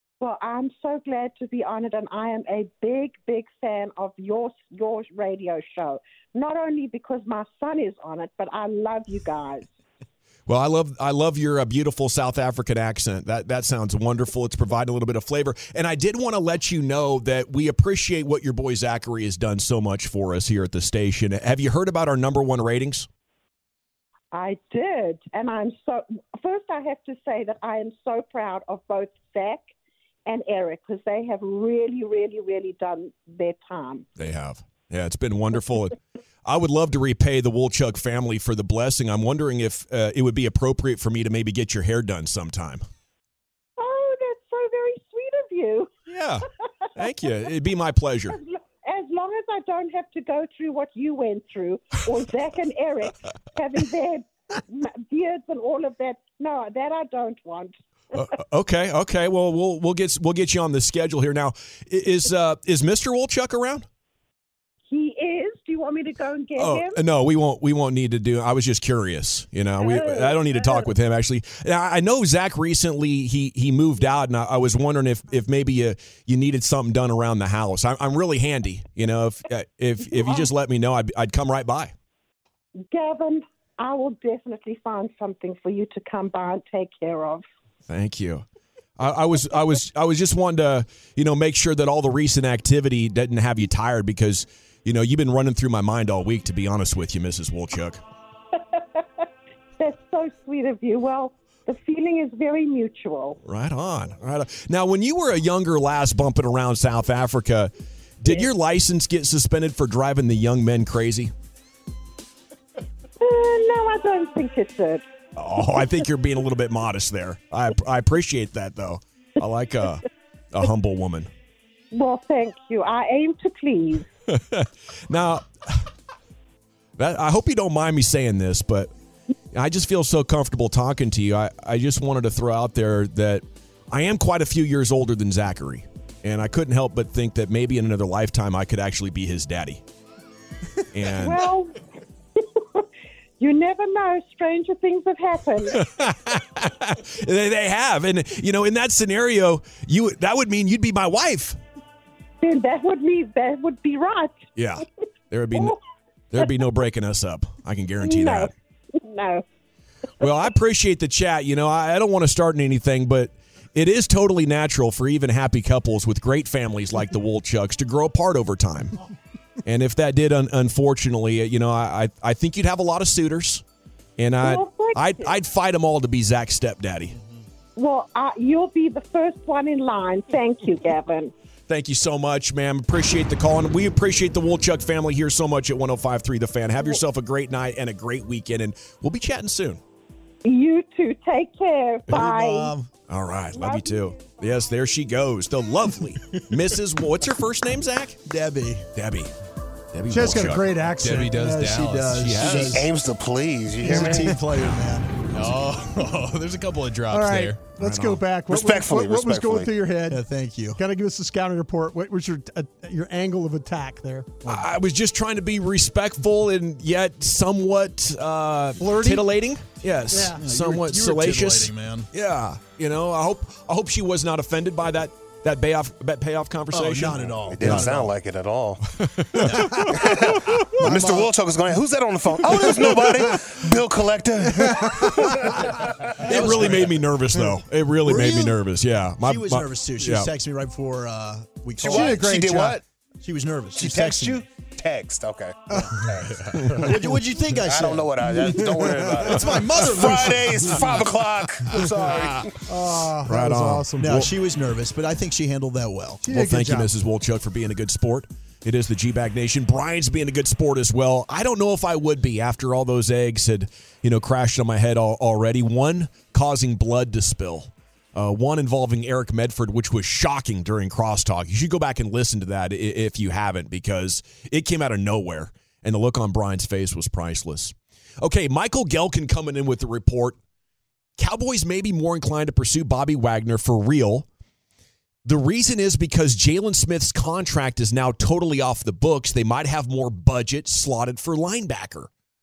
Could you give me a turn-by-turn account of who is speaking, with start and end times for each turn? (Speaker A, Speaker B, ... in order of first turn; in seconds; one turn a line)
Speaker A: 0.2-9.7
Speaker B: 10.5-23.1
Speaker A: 24.3-29.7
Speaker A: 30.2-34.0
Speaker B: 34.2-42.8
Speaker A: 43.8-45.9
Speaker B: 46.1-46.4
Speaker B: 47.0-48.4
Speaker A: 48.3-57.8
Speaker B: 58.1-63.8
Speaker A: 64.9-67.0
Speaker B: 66.6-81.9
Speaker A: 69.8-70.9
Speaker A: 82.8-87.4
Speaker B: 87.9-88.4
Speaker B: 89.0-98.0
Speaker A: 98.8-99.0
Speaker A: 99.8-103.4
Speaker B: 103.4-111.3
Speaker A: 113.2-115.0
Speaker B: 115.3-121.3
Speaker A: 121.9-124.0
Speaker B: 124.3-125.8
Speaker B: 127.0-128.9
Speaker B: 129.5-139.8
Speaker B: 140.9-141.5
Speaker A: 141.2-141.8
Speaker A: 142.4-142.8
Speaker A: 143.4-145.8
Speaker B: 145.7-151.6
Speaker A: 152.4-154.4
Speaker B: 154.6-155.7
Speaker B: 156.3-158.5
Speaker A: 158.0-159.4
Speaker B: 160.2-168.9
Speaker B: 169.7-173.6
Speaker B: 174.2-177.1
Speaker A: 174.4-175.3
Speaker A: 177.8-181.3
Speaker B: 181.7-189.8
Speaker A: 190.4-192.7
Speaker C: 192.1-192.9
Speaker B: 193.1-198.2
Speaker A: 193.6-194.0
Speaker C: 198.2-198.9
Speaker B: 198.9-199.3
Speaker B: 199.9-200.7
Speaker D: 200.1-202.9
Speaker E: 201.0-202.8
Speaker F: 202.6-204.4
Speaker C: 203.8-205.1
Speaker D: 203.8-204.3
Speaker E: 205.3-207.6
Speaker D: 207.1-210.2
Speaker B: 207.8-208.2
Speaker F: 208.5-209.7
Speaker C: 210.1-210.8
Speaker D: 210.8-214.6
Speaker B: 214.4-227.8
Speaker D: 218.8-219.3
Speaker D: 220.1-220.4
Speaker C: 220.3-222.1
Speaker C: 226.7-228.1
Speaker F: 227.5-228.8
Speaker B: 229.0-229.9
Speaker C: 229.3-230.2
Speaker F: 229.9-235.2
Speaker D: 230.8-231.3
Speaker D: 232.6-233.4
Speaker D: 234.6-235.4
Speaker C: 236.2-236.9
Speaker B: 236.2-240.3
Speaker C: 238.0-238.6
Speaker C: 239.2-242.5
Speaker F: 241.8-242.8
Speaker D: 241.8-242.8
Speaker C: 243.2-244.4
Speaker F: 243.7-246.1
Speaker D: 245.7-246.0
Speaker D: 246.6-247.1
Speaker C: 246.8-248.1
Speaker F: 247.6-252.5
Speaker D: 248.5-249.3
Speaker C: 249.2-250.8
Speaker D: 251.8-252.1
Speaker D: 252.7-254.2
Speaker B: 253.3-254.3
Speaker C: 254.0-256.2
Speaker D: 256.2-256.9
Speaker B: 256.3-280.4
Speaker B: 281.2-284.3
Speaker B: 285.2-292.1